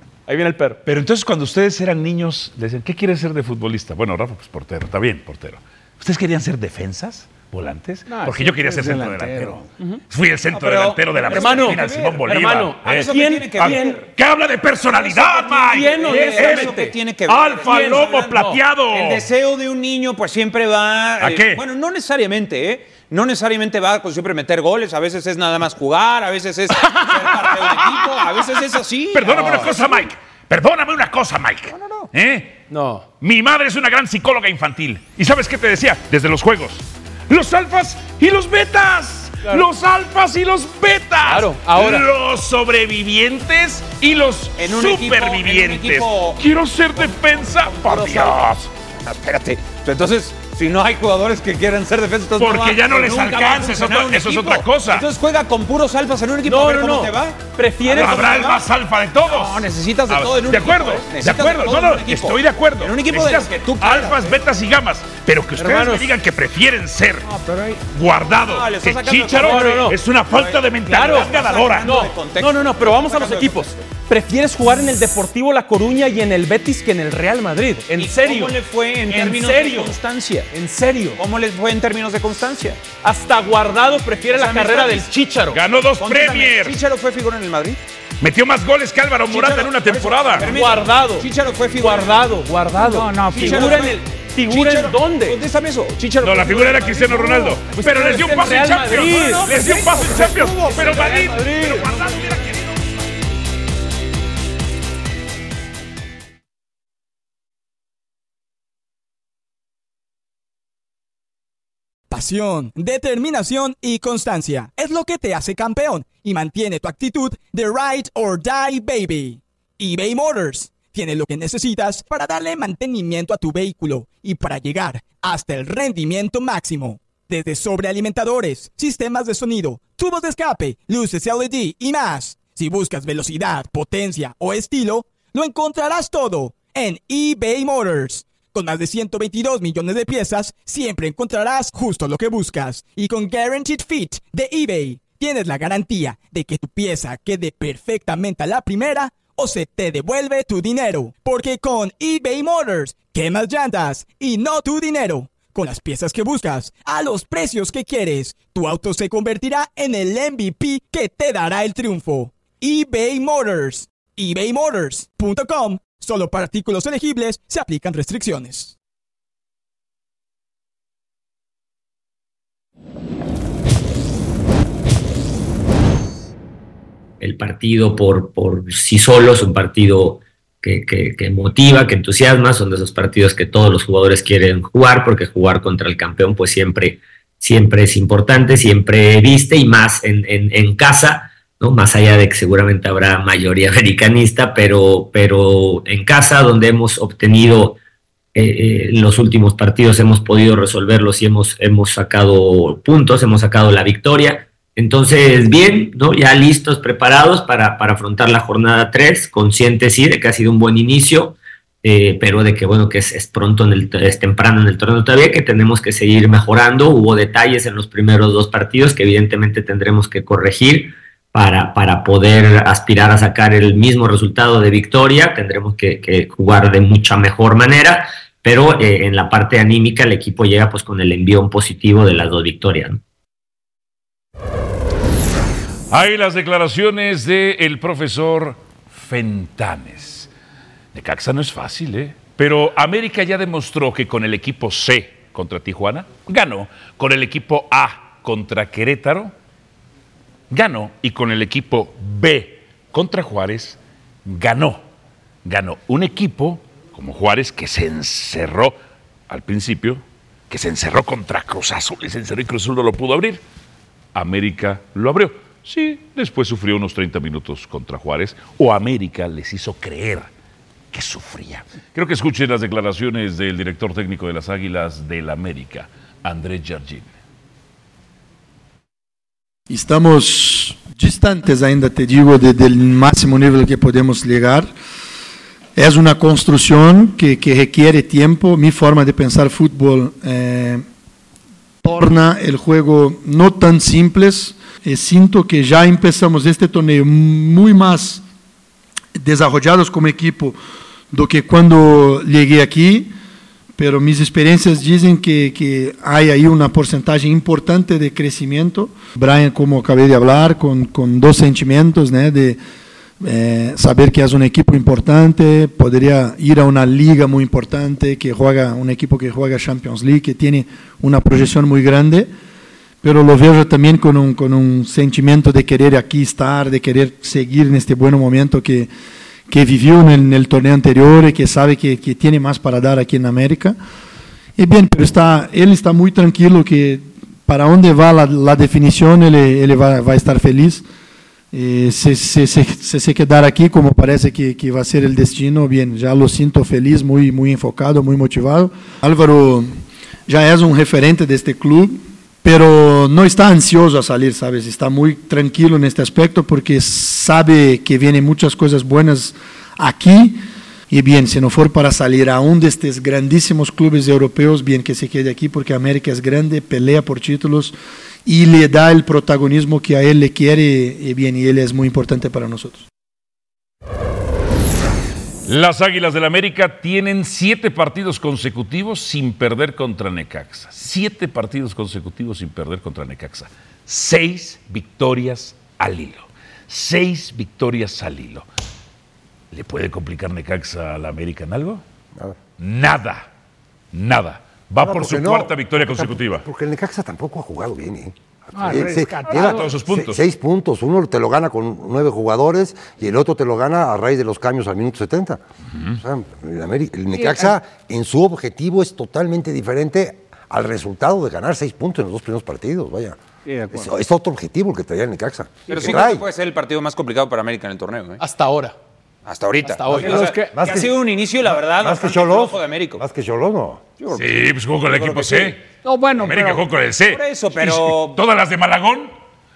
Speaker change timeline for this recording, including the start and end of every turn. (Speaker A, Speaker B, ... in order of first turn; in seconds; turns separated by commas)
Speaker A: 0.3-0.8, Speaker B: 0.8-19.2, Speaker C: 8.1-9.6, Speaker D: 10.5-14.1, Speaker A: 11.3-14.0, Speaker D: 14.9-30.0, Speaker A: 15.7-16.9, Speaker A: 17.6-18.6, Speaker B: 21.2-21.6, Speaker B: 26.7-28.2, Speaker B: 29.1-32.5, Speaker A: 29.2-29.8, Speaker D: 31.7-32.1, Speaker A: 32.7-33.1, Speaker B: 33.2-48.7, Speaker A: 41.2-42.0, Speaker D: 44.6-46.4, Speaker D: 47.0-48.4, Speaker D: 49.0-58.6, Speaker B: 52.4-55.0, Speaker A: 56.4-58.4, Speaker B: 57.9-67.3, Speaker D: 59.2-64.4, Speaker A: 65.6-66.1, Speaker C: 67.2-67.8, Speaker B: 67.9-72.0, Speaker D: 68.4-73.8, Speaker A: 69.4-70.0, Speaker A: 70.9-80.0, Speaker D: 78.0-80.5, Speaker A: 80.5-81.2, Speaker D: 81.2-82.8, Speaker A: 83.0-85.6, Speaker D: 84.3-85.1, Speaker B: 85.5-86.8, Speaker D: 86.0-87.8, Speaker B: 88.2-90.5, Speaker D: 89.3-92.4, Speaker A: 90.4-95.4, Speaker C: 92.8-93.9, Speaker D: 93.3-97.6, Speaker B: 96.2-102.8, Speaker A: 97.7-99.5, Speaker D: 98.9-101.3, Speaker A: 100.7-101.9, Speaker E: 112.1-168.7, Speaker F: 177.2-197.8, Speaker F: 198.3-233.0, Speaker B: 235.9-240.3, Speaker B: 240.9-249.3, Speaker B: 250.5-254.8, Speaker B: 255.4-258.8, Speaker B: 259.3-263.4, Speaker B: 264.1-270.3, Speaker B: 270.9-277.1, Speaker G: 279.7-284.7, Speaker G: 285.8-290.8, Speaker G: 291.8-298.2, Speaker G: 299.1-300.6, Speaker G: 301.1-303.1, Speaker G: 303.8-312.6, Speaker G: 313.2-322.3, Speaker G: 323.0-328.9, Speaker G: 329.5-333.8, Speaker G: 334.6-340.8, Speaker G: 341.5-349.7, Speaker G: 350.3-372.9, Speaker B: 375.4-388.4, Speaker B: 389.5-391.8, Speaker B: 392.6-393.3, Speaker B: 393.9-396.4, Speaker H: 394.8-405.4, Speaker C: 398.5-399.7, Speaker B: 399.3-400.2, Speaker H: 406.0-413.2, Speaker C: 407.1-407.5, Speaker C: 413.4-413.9, Speaker H: 413.7-416.3, Speaker D: 415.7-418.2, Speaker A: 418.2-418.7, Speaker D: 419.2-423.0, Speaker A: 419.6-420.3, Speaker H: 419.9-423.8, Speaker C: 420.0-420.6, Speaker D: 424.0-425.6, Speaker B: 424.1-425.6, Speaker C: 425.8-426.6, Speaker B: 426.2-429.1, Speaker D: 427.0-428.2